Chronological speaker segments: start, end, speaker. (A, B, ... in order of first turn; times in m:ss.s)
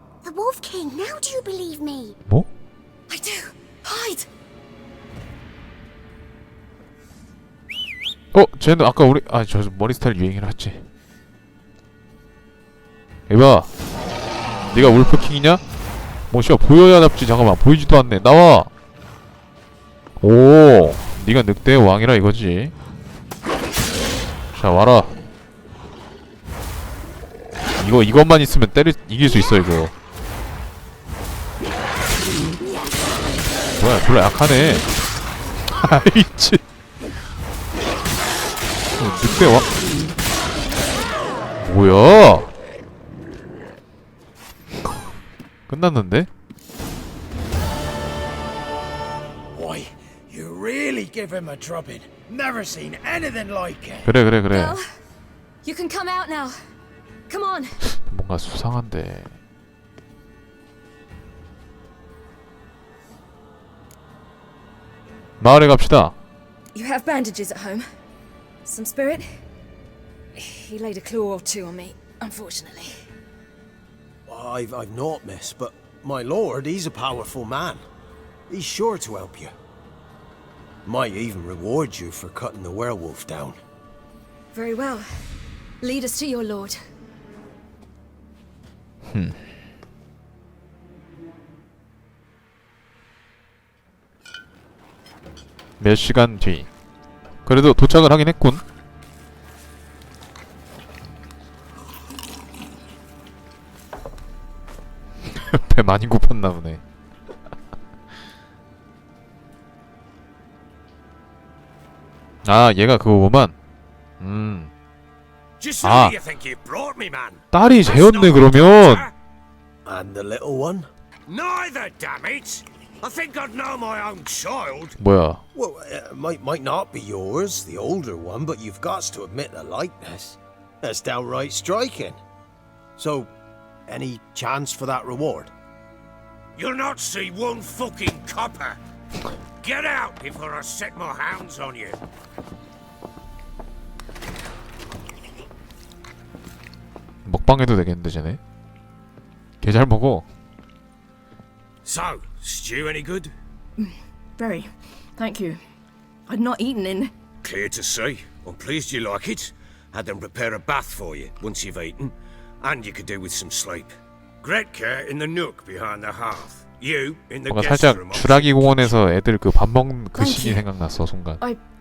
0:00.2-0:02.2 A
0:03.1-0:04.3 B
0:08.3-0:10.8 C
0:13.3-0:13.7 C
0:14.7-0:15.6 C
0:16.3-0:18.7 C
0:20.2-0:22.7 C
0:24.5-0:25.1 C
0:27.8-0:29.9 C
0:33.8-0:34.9 C
0:35.7-0:36.6 C
0:39.0-0:39.7 C
0:41.6-0:42.5 C
0:45.7-0:46.3 C
0:49.5-0:54.1 D
0:54.0-0:54.8 C
0:54.5-0:54.9 B
0:55.6-0:56.5 B
0:57.3-0:57.8 B
0:58.0-0:59.3 C
1:05.4-1:06.2 C
1:06.7-1:07.8 B
1:08.6-1:09.3 B
1:10.3-1:12.9 B
1:14.3-1:17.8 D
1:18.5-1:19.5 D
1:20.8-1:23.6 D
1:24.5-1:26.8 B
1:29.1-1:29.4 C
1:35.8-1:36.7 C
1:37.4-1:38.6 C
1:45.2-1:46.8 C
1:52.4-1:53.5 C
1:54.2-1:54.7 C
1:55.6-1:59.1 E
1:55.8-1:56.1 C
1:57.5-1:59.1 C
1:59.8-2:00.9 D
2:01.3-2:05.0 E
2:05.0-2:05.4 C
2:05.5-2:12.2 D
2:13.0-2:13.3 D
2:13.9-2:15.5 D
2:16.6-2:18.8 E
2:19.6-2:22.0 E
2:27.2-2:28.4 C
2:29.6-2:30.2 C
2:31.8-2:33.3 E
2:33.8-2:35.6 B
2:36.3-2:37.1 B
2:37.4-2:49.0 E
2:47.5-2:51.4 C
2:50.1-2:50.6 B